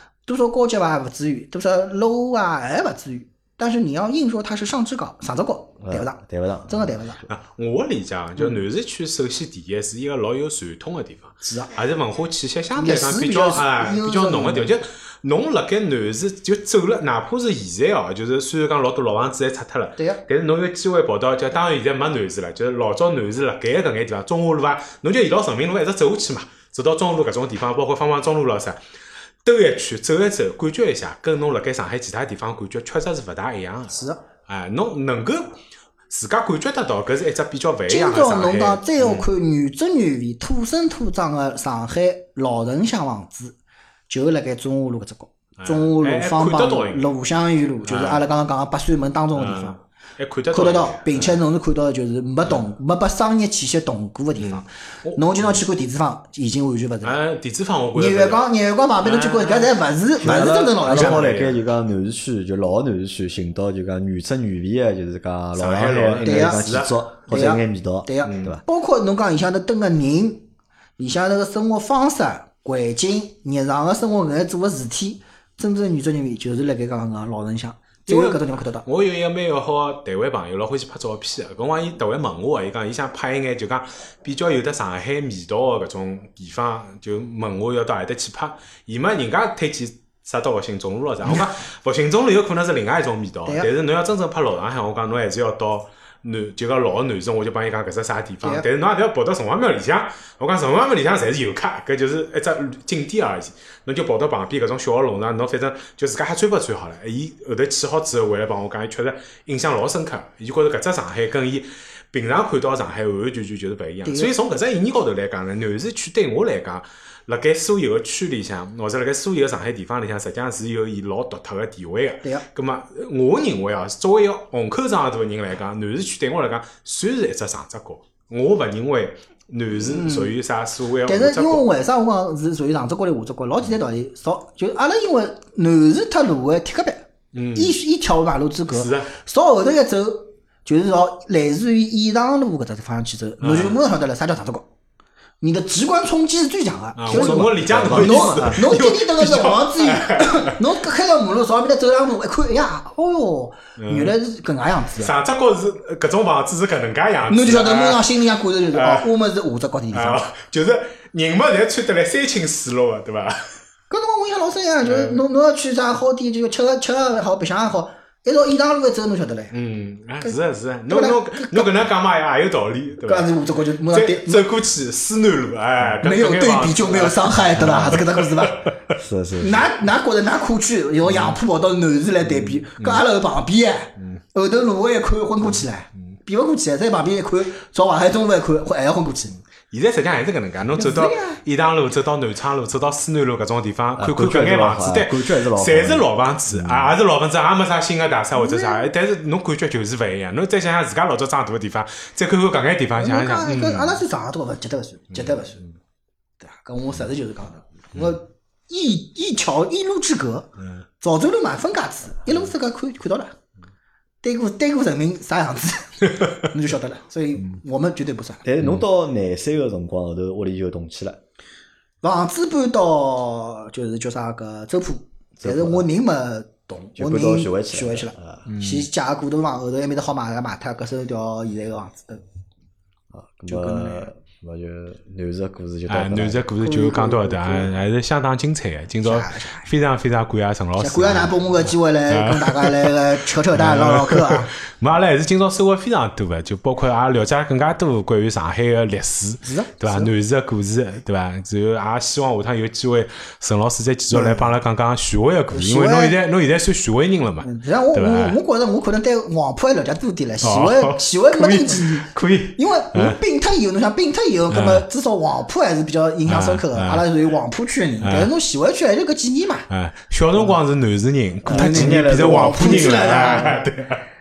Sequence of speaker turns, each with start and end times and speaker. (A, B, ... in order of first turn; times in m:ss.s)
0:00.3-0:07.2 A
0:05.8-0:07.0 B
0:07.3-0:28.8 C
0:11.4-0:11.7 A
0:12.8-0:14.8 A
0:20.0-0:20.2 A
0:29.4-0:35.6 C
0:33.9-0:34.2 A
0:36.1-0:39.3 C
0:37.9-0:43.6 A
0:44.1-0:49.8 A
0:45.6-0:47.1 C
0:47.8-0:48.2 C
0:49.4-0:51.4 C
0:50.5-0:57.2 A
0:54.4-0:55.6 C
0:57.0-0:58.5 C
0:58.0-1:01.3 A
0:59.0-0:59.8 C
1:00.2-1:08.6 B
1:00.8-1:01.6 C
1:05.6-1:07.0 C
1:06.2-1:06.7 A
1:07.3-1:10.5 A
1:08.2-1:08.6 C
1:11.0-1:18.9 A
1:18.1-2:11.7 C
1:54.1-1:54.3 A
2:09.8-2:10.4 A
2:11.1-2:24.7 A
2:17.3-2:17.8 C
2:18.7-2:19.1 C
2:23.4-2:23.8 C
2:25.4-2:35.1 A
2:27.0-2:30.6 C
2:27.1-2:28.7 B
2:33.8-2:34.2 C
2:35.0-2:38.1 C
2:37.3-2:40.2 A
2:38.7-2:39.1 C
2:39.9-2:43.4 C
2:43.9-2:49.5 A
2:44.8-2:45.2 C
2:49.5-2:59.0 C
2:50.9-2:51.7 A
2:53.1-2:54.4 A
2:56.0-2:58.7 A
2:57.7-2:58.0 B
2:59.0-2:59.7 B
2:59.4-3:09.4 A
3:01.0-3:01.4 C
3:02.8-3:03.0 C
3:09.7-3:24.0 C
3:10.8-3:11.4 A
3:14.0-3:17.0 B
3:18.4-3:18.9 A
3:23.0-3:25.6 A
3:25.1-3:25.7 C
3:26.4-3:30.5 A
3:30.6-3:30.8 C
3:31.0-3:33.4 A
3:34.2-3:38.4 A
3:38.4-3:41.2 B
3:42.0-3:52.2 A
3:45.4-3:45.8 B
3:47.0-3:48.5 B
3:48.5-3:48.9 C
3:53.1-3:56.5 B
3:53.5-3:54.1 A
3:55.9-4:01.4 C
3:56.6-3:57.7 A
3:59.0-3:59.7 A
4:00.8-4:04.5 A
4:02.1-4:03.0 C
4:03.5-4:18.4 C
4:09.4-4:10.1 A
4:14.1-4:14.5 A
4:15.5-4:16.2 A
4:17.4-4:29.7 A
4:20.4-4:23.2 C
4:24.5-4:24.9 C
4:26.3-4:27.1 C
4:28.0-4:28.3 C
4:29.7-4:34.0 C
4:31.4-4:33.2 B
4:31.5-4:33.7 A